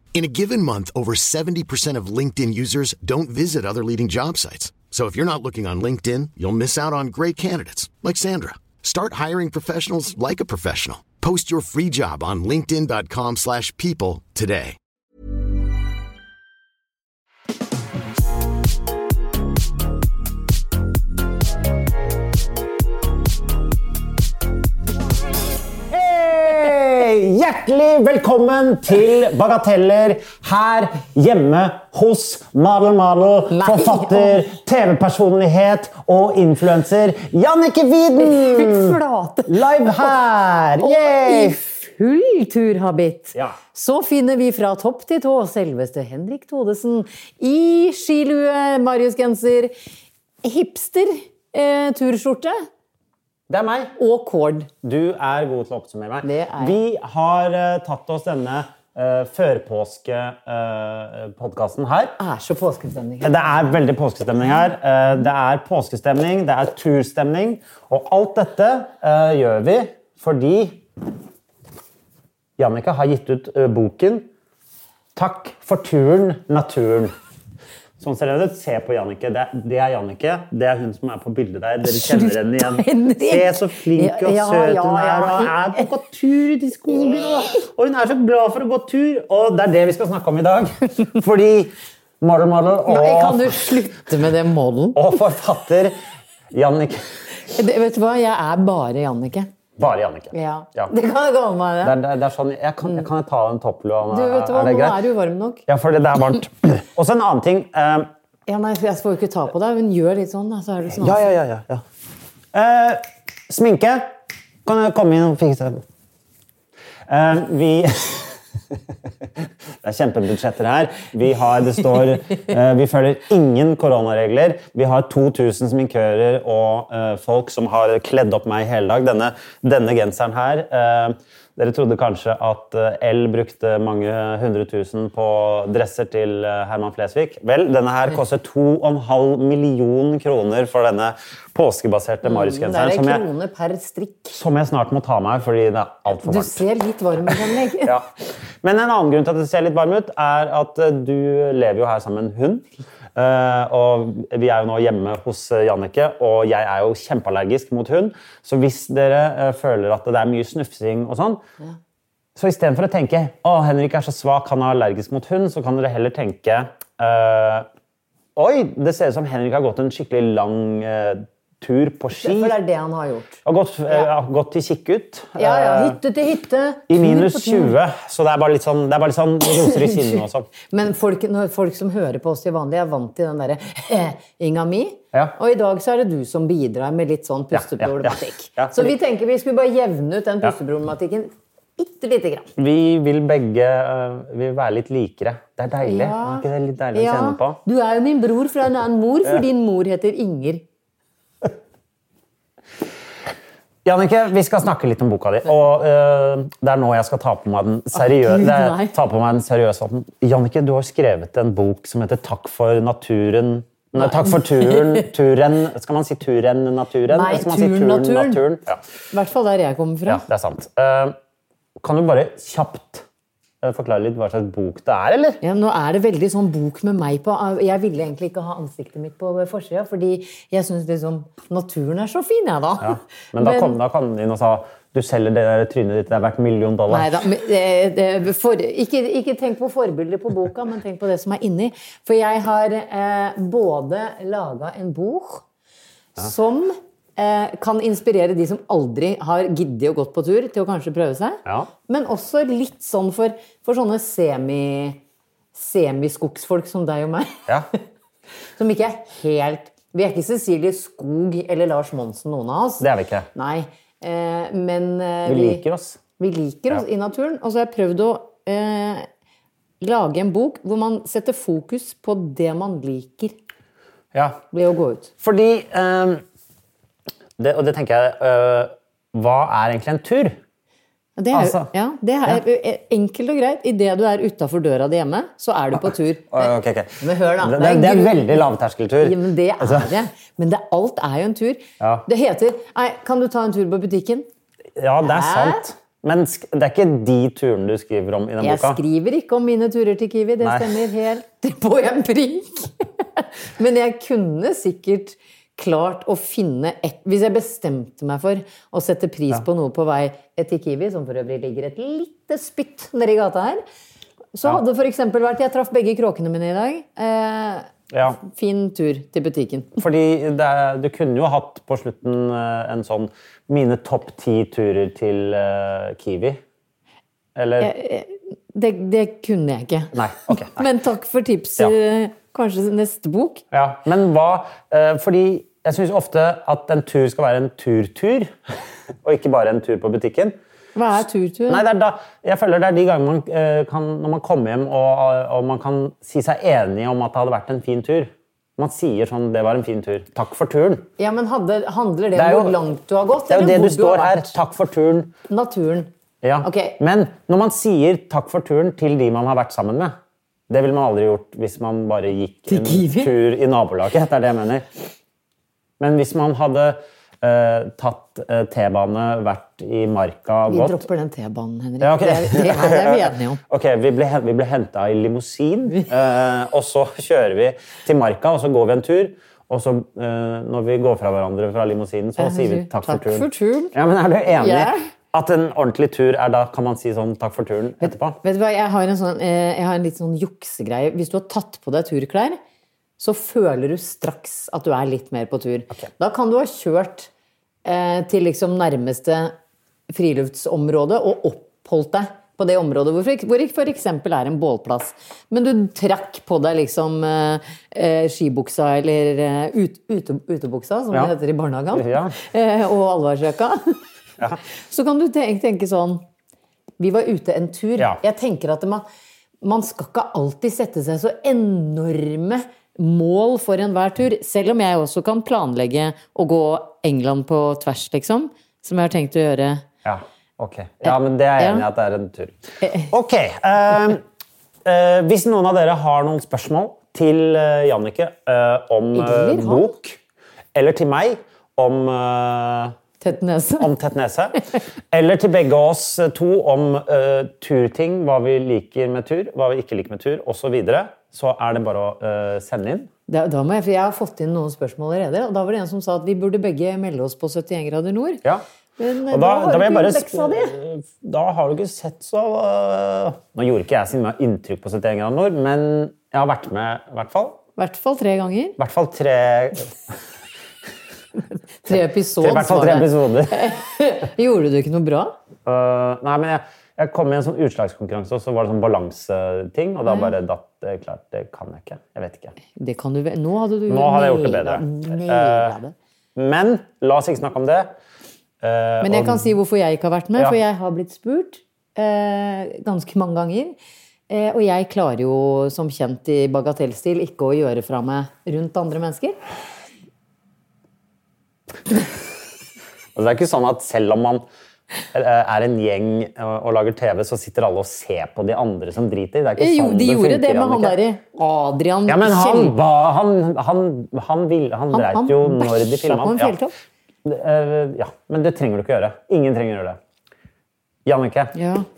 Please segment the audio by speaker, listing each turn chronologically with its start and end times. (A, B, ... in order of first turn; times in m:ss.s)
0:00.1-0:14.8 A
0:25.9-0:41.6 B
0:33.5-0:34.5 C
0:38.2-0:40.1 C
0:40.8-0:49.7 C
0:50.4-0:52.6 C
0:53.5-0:53.9 B
0:54.0-0:54.7 C
0:54.8-1:02.2 B
0:56.2-0:56.8 C
1:02.2-1:03.4 C
1:03.2-1:10.8 B
1:12.6-1:14.3 B
1:15.2-1:17.1 B
1:18.0-1:33.8 B
1:21.8-1:25.9 C
1:32.8-1:35.0 C
1:34.9-1:35.9 B
1:36.5-1:37.0 B
1:37.4-1:39.5 C
1:39.8-1:40.9 B
1:40.3-1:42.0 C
1:41.8-1:45.0 B
1:44.1-1:45.6 C
1:45.7-1:48.1 B
1:48.5-1:51.2 C
1:51.0-1:51.8 B
1:52.5-1:54.1 B
1:54.6-1:55.8 B
1:57.1-1:58.3 B
1:59.8-2:23.2 B
2:22.2-2:24.4 C
2:24.3-2:26.6 B
2:26.1-2:28.0 C
2:27.3-2:28.1 B
2:28.6-2:41.4 B
2:42.4-2:47.7 B
2:48.4-2:52.6 B
2:52.2-2:54.1 C
2:53.4-2:56.0 B
2:55.4-2:57.8 C
2:56.9-3:00.5 B
2:59.6-3:12.5 C
3:07.5-3:08.9 B
3:12.6-3:17.6 B
3:15.8-3:20.6 C
3:23.8-3:38.8 B
3:27.9-3:28.9 C
3:34.0-3:35.1 C
3:37.1-3:38.4 C
3:39.1-3:40.2 C
3:40.1-3:41.2 B
3:41.8-3:43.0 B
3:43.6-3:45.4 B
3:45.4-3:53.8 C
3:52.8-3:57.1 B
3:56.9-4:05.4 C
4:06.2-4:15.0 C
4:11.4-4:11.7 B
4:15.5-4:17.5 C
4:18.6-4:25.6 C
4:22.8-4:23.3 B
4:25.2-4:26.0 B
4:26.2-4:29.1 C
4:29.8-4:33.3 C
4:34.1-4:34.4 B
4:34.5-4:35.1 C
4:35.2-4:36.2 B
4:37.4-4:40.4 B
4:41.2-4:48.4 C
4:41.3-4:41.7 B
4:46.3-4:49.9 B
4:49.0-4:54.3 C
4:51.8-4:52.0 B
4:54.8-4:58.8 B
4:55.0-4:55.6 C
4:58.4-5:13.6 C
5:00.4-5:00.7 B
5:14.3-5:19.8 C
5:17.9-5:18.2 B
5:19.8-5:26.4 B
5:27.4-5:27.7 B
5:27.6-5:33.4 C
5:29.9-5:30.6 B
5:33.5-5:38.4 B
5:39.0-5:40.4 B
5:40.7-5:41.6 C
5:41.5-5:50.9 B
5:51.0-5:54.3 C
5:52.2-5:52.6 B
5:53.3-5:55.1 B
5:55.3-5:55.9 C
5:56.2-6:00.0 B
5:56.4-5:56.8 C
6:00.5-6:04.7 B
6:02.5-6:03.1 C
6:05.8-6:10.8 B
6:10.5-6:13.4 C
6:11.8-6:28.2 B
6:22.2-6:23.7 C
6:24.4-6:24.9 C
6:27.9-6:32.4 C
6:33.0-6:37.1 C
6:37.6-6:39.3 C
6:39.9-6:53.8 C
6:51.7-6:52.2 B
6:54.4-6:56.0 C
6:56.8-6:58.8 C
6:59.4-7:09.6 C
7:09.8-7:14.0 B
7:10.8-7:11.7 C
7:12.6-7:12.9 C
7:14.6-7:20.0 B
7:18.9-7:19.7 C
7:20.5-7:22.8 B
7:23.0-7:23.7 C
7:23.6-7:24.4 B
7:24.9-7:32.9 B
7:33.1-7:38.2 C
7:38.8-7:40.6 C
7:39.1-7:47.4 B
7:47.6-7:48.6 C
7:48.6-7:50.0 B
7:51.6-7:55.2 C
7:51.7-7:53.5 B
7:55.4-8:02.4 B
7:59.9-8:00.1 C
8:02.6-8:05.7 C
8:03.7-8:05.5 B
8:06.2-8:07.7 B
8:08.4-8:09.4 B
8:08.8-8:13.6 C
8:14.1-8:19.2 C
8:22.9-8:24.2 B
8:24.9-8:30.8 B
8:29.4-8:32.6 C
8:31.9-8:36.4 B
8:34.7-8:36.5 C
8:37.0-8:39.8 B
8:40.8-8:41.4 B
8:41.3-8:41.6 C